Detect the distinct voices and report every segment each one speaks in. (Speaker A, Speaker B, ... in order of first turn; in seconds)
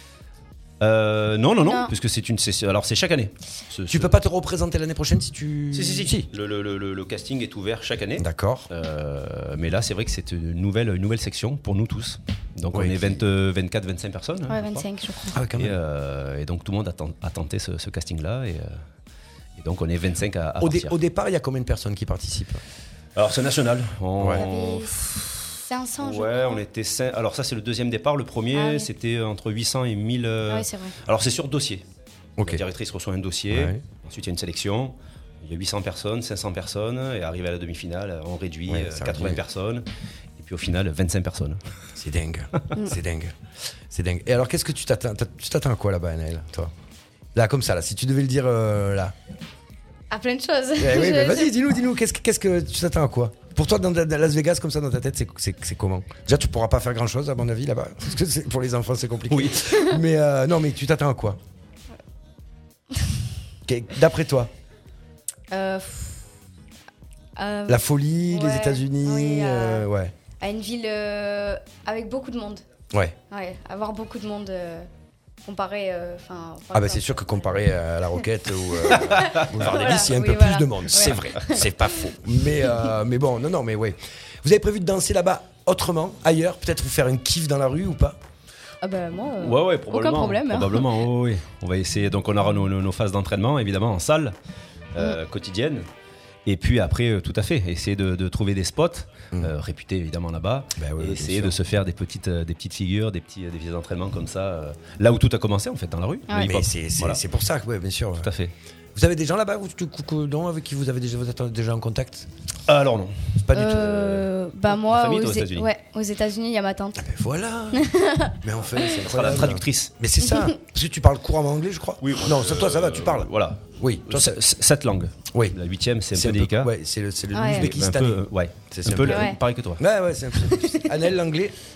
Speaker A: 0.8-4.1, 5.7-14.8, 15.5-18.8, 19.6-20.9, 23.1-31.8, 32.4-39.9, 40.4-41.6, 59.3-59.6, 79.1-80.0, 89.4-94.3, 94.9-95.8, 96.5-107.2, 108.2-108.5, 112.7-113.4, 114.7-115.7, 118.9-119.9, 122.0-126.7, 127.4-129.8
Speaker B: 1.6-1.9, 14.5-15.4, 24.3-25.0, 25.6-26.6, 28.5-28.9, 30.5-31.0, 50.1-51.5, 65.5-66.2, 67.4-69.9, 70.4-72.6, 73.3-74.9, 75.4-77.3, 78.8-82.0, 88.8-90.9, 106.3-106.6, 113.5-117.0, 117.7-118.4, 120.2-120.5, 127.3-127.7, 129.0-129.4, 130.4-130.9
Speaker C: 3.9-6.3, 8.2-8.7, 12.7-13.1, 15.3-15.8, 20.6-22.6, 24.2-24.4, 32.4-32.6, 33.5-33.8, 38.7-39.4, 42.0-43.3, 43.9-46.7, 47.3-49.1, 50.8-61.4, 63.6-64.5, 67.7-70.1, 76.7-88.2, 100.8-101.6, 106.4-108.3, 108.9-112.3, 113.4-114.3, 117.0-124.4, 125.3-125.6, 126.1-131.5